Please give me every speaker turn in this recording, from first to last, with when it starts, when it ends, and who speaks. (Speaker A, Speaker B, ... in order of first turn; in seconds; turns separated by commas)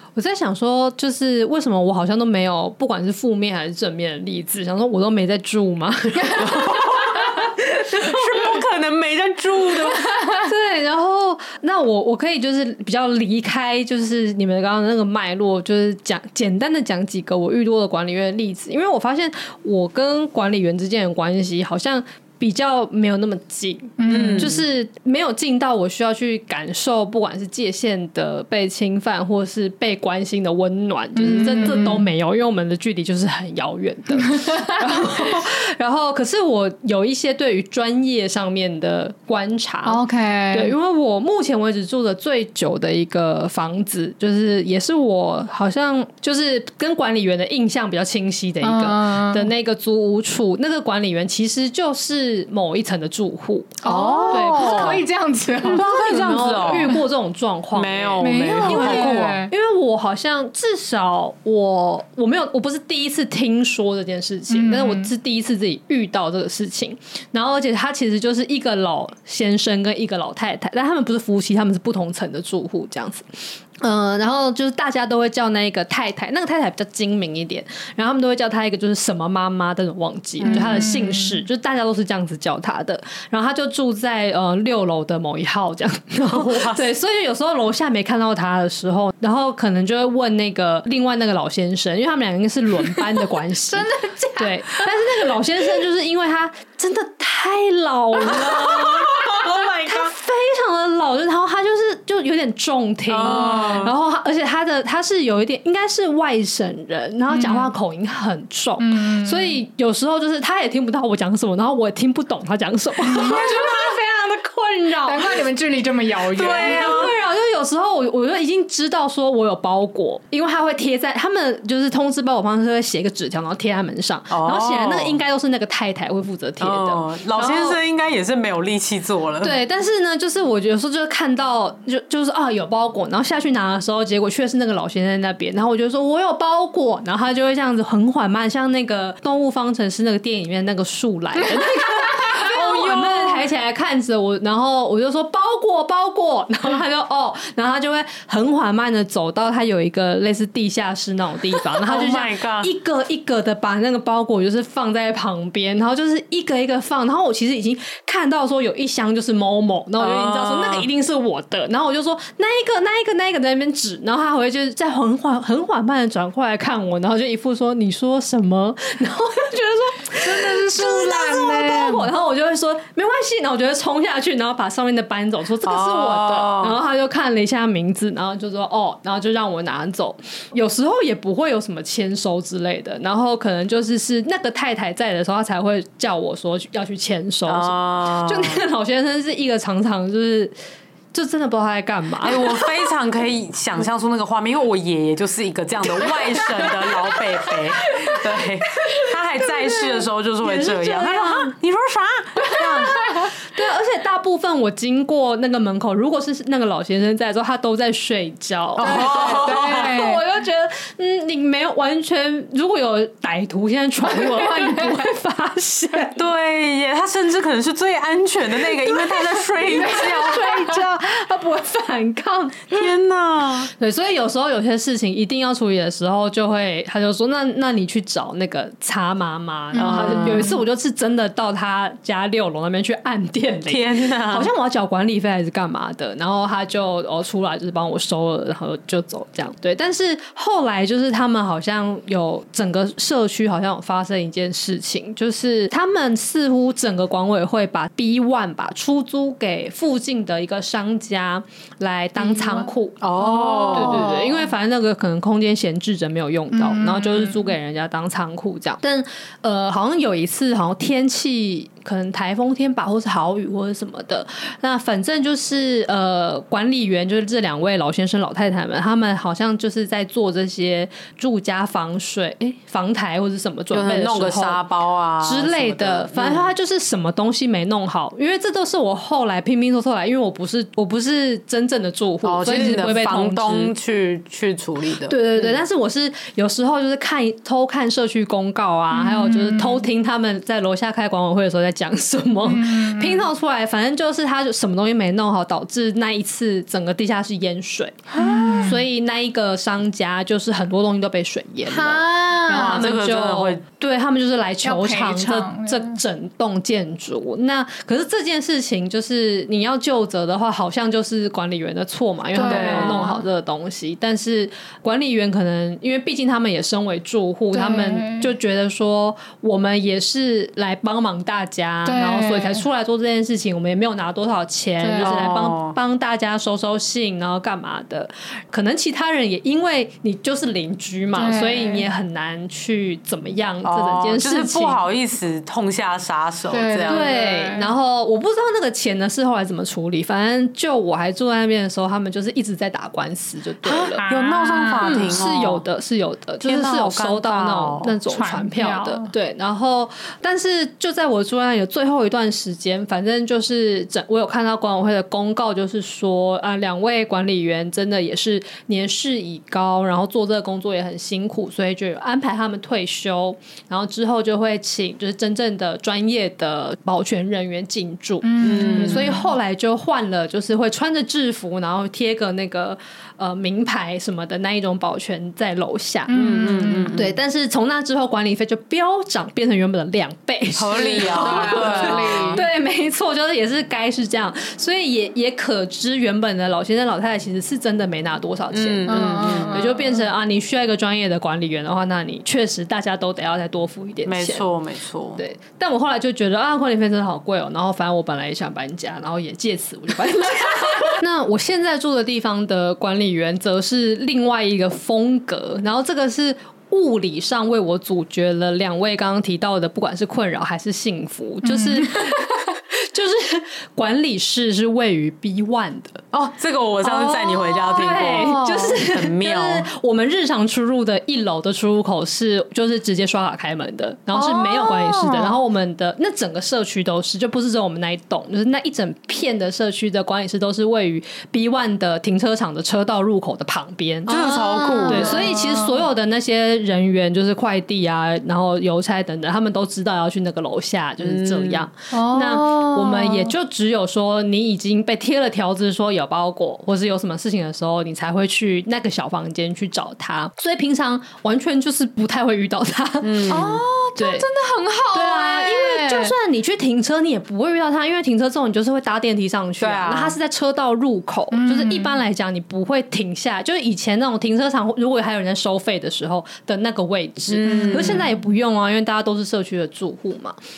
Speaker A: 0.2-6.9, Speaker B: 6.2-6.5, Speaker C: 6.3-10.2, Speaker B: 10.2-10.5, Speaker A: 10.4-55.0, Speaker B: 24.0-24.5, Speaker C: 24.1-24.7, Speaker B: 31.1-32.1, Speaker C: 31.4-31.9, Speaker B: 34.2-35.3, Speaker B: 39.9-40.7, Speaker B: 48.6-49.5, Speaker B: 53.8-55.9, Speaker C: 53.9-55.0, Speaker A: 55.6-93.9, Speaker C: 55.6-57.0, Speaker C: 57.7-59.4, Speaker B: 58.2-59.5, Speaker B: 64.5-65.1, Speaker C: 80.4-80.9, Speaker B: 80.5-81.4, Speaker C: 86.3-86.9, Speaker B: 93.7-94.8, Speaker A: 94.4-115.4, Speaker C: 98.2-100.1, Speaker C: 103.1-104.0, Speaker B: 103.2-103.8, Speaker B: 107.3-107.7, Speaker B: 108.8-109.6, Speaker B: 113.1-113.7, Speaker C: 113.2-114.0, Speaker B: 115.0-117.1, Speaker C: 116.3-117.2, Speaker A: 116.3-127.8, Speaker C: 124.3-125.2, Speaker C: 126.6-129.6, Speaker A: 129.4-190.5, Speaker B: 141.7-143.4, Speaker C: 151.7-152.7, Speaker C: 160.0-160.9, Speaker B: 170.0-172.1, Speaker C: 175.6-176.8, Speaker C: 187.5-188.6, Speaker A: 191.1-192.9, Speaker C: 192.2-203.0, Speaker A: 196.0-196.9, Speaker A: 198.0-198.3, Speaker A: 199.4-201.6, Speaker A: 202.8-216.2, Speaker B: 202.9-203.3, Speaker C: 208.8-210.1, Speaker B: 208.8-210.2, Speaker B: 214.1-214.9, Speaker C: 216.2-220.6, Speaker A: 219.3-222.9, Speaker B: 219.8-220.8, Speaker C: 222.7-223.7, Speaker A: 223.8-253.0, Speaker B: 229.7-230.6, Speaker C: 229.8-230.6, Speaker C: 233.7-234.5, Speaker B: 252.2-254.5, Speaker C: 253.0-254.1, Speaker A: 253.7-274.6, Speaker B: 256.5-257.5, Speaker C: 273.7-276.5, Speaker A: 275.2-283.7, Speaker C: 282.2-285.6, Speaker A: 285.1-334.8, Speaker B: 288.9-289.9, Speaker B: 292.4-293.3, Speaker C: 298.1-298.7, Speaker B: 298.2-298.8, Speaker B: 301.7-302.9, Speaker C: 302.5-303.6, Speaker B: 304.6-306.0, Speaker B: 312.4-313.3, Speaker C: 312.4-313.1, Speaker B: 317.5-318.3, Speaker B: 321.9-322.6, Speaker B: 324.8-325.2, Speaker C: 325.0-325.8, Speaker B: 331.1-331.9, Speaker C: 333.6-337.1, Speaker B: 336.5-337.7, Speaker A: 336.9-344.0, Speaker C: 343.6-345.6, Speaker B: 343.7-345.2, Speaker A: 344.8-376.1, Speaker C: 346.4-348.0, Speaker B: 348.1-349.1, Speaker B: 368.2-369.3, Speaker C: 368.4-369.2, Speaker B: 376.1-377.0, Speaker C: 376.1-377.2, Speaker A: 376.9-394.5, Speaker C: 380.6-382.5, Speaker B: 380.7-382.5, Speaker C: 388.5-389.6, Speaker B: 388.9-390.1, Speaker C: 394.1-395.2, Speaker A: 395.2-416.0, Speaker B: 411.4-412.2, Speaker C: 416.1-419.7, Speaker A: 416.8-453.4, Speaker C: 424.1-425.3, Speaker B: 434.1-435.9, Speaker C: 434.1-435.3, Speaker C: 441.0-441.7, Speaker B: 441.9-443.3, Speaker C: 453.0-453.6, Speaker B: 453.3-456.1, Speaker A: 454.0-454.3, Speaker A: 454.9-470.4, Speaker C: 459.6-460.2, Speaker B: 461.3-462.0, Speaker C: 467.3-468.1, Speaker B: 467.4-468.1